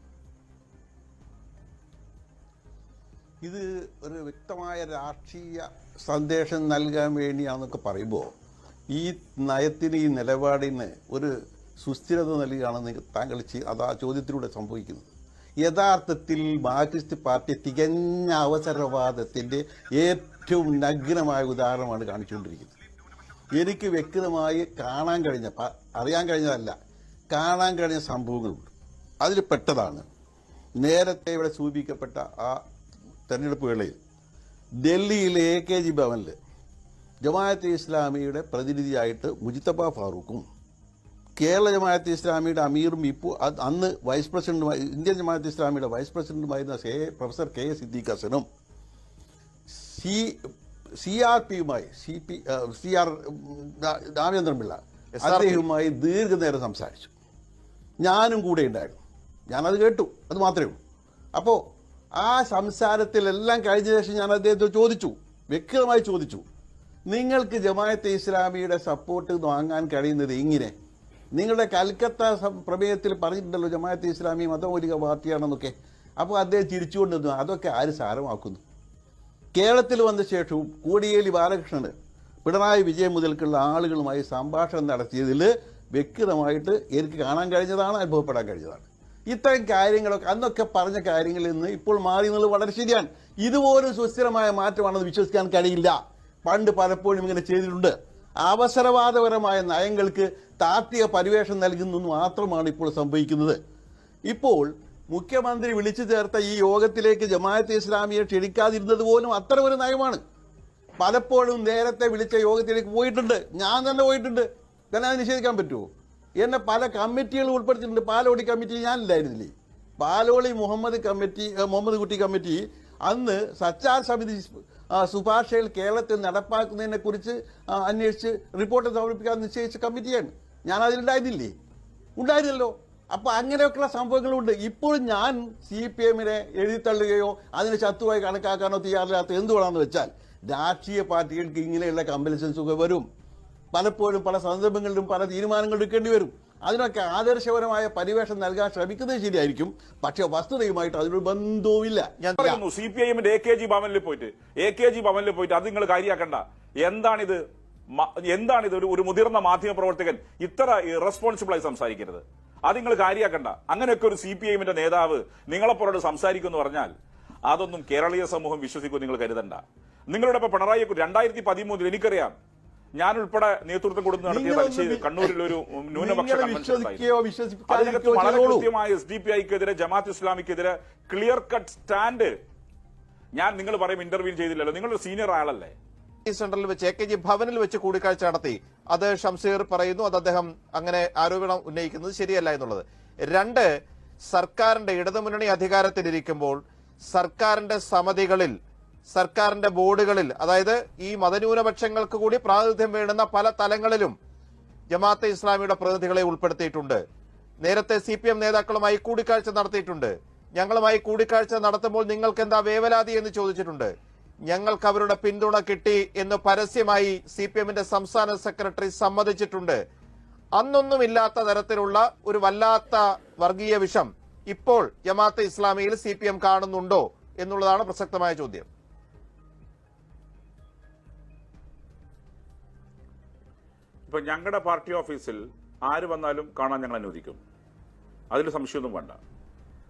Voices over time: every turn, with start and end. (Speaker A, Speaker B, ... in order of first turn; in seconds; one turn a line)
Speaker A: 3.4-8.3
Speaker A: 8.9-15.1
Speaker A: 15.6-22.7
Speaker A: 23.5-26.7
Speaker A: 27.3-28.7
Speaker A: 29.2-30.1
Speaker A: 30.8-32.6
Speaker A: 33.3-34.0
Speaker A: 34.9-36.4
Speaker A: 37.2-40.5
Speaker A: 41.4-48.5
Speaker A: 49.7-57.1
Speaker B: 55.2-55.6
Speaker A: 58.0-59.0
Speaker A: 59.5-60.8
Speaker A: 62.2-66.4
Speaker A: 67.1-70.7
Speaker A: 71.4-78.6
Speaker A: 79.5-81.9
Speaker A: 82.5-103.6
Speaker A: 104.3-110.2
Speaker A: 111.0-115.9
Speaker A: 116.4-131.5
Speaker A: 132.2-143.1
Speaker A: 143.7-152.2
Speaker B: 152.2-152.6
Speaker C: 152.4-157.4
Speaker C: 157.9-166.9
Speaker C: 167.5-172.3
Speaker C: 173.0-177.1
Speaker A: 174.2-178.7
Speaker C: 177.7-182.3
Speaker C: 183.4-185.7
Speaker B: 186.3-193.7
Speaker B: 194.3-196.6
Speaker B: 197.1-198.6
Speaker B: 199.1-204.1
Speaker B: 204.9-207.0
Speaker B: 207.6-213.9
Speaker B: 214.5-219.8
Speaker B: 220.6-228.7
Speaker C: 234.1-237.4
Speaker C: 238.3-239.2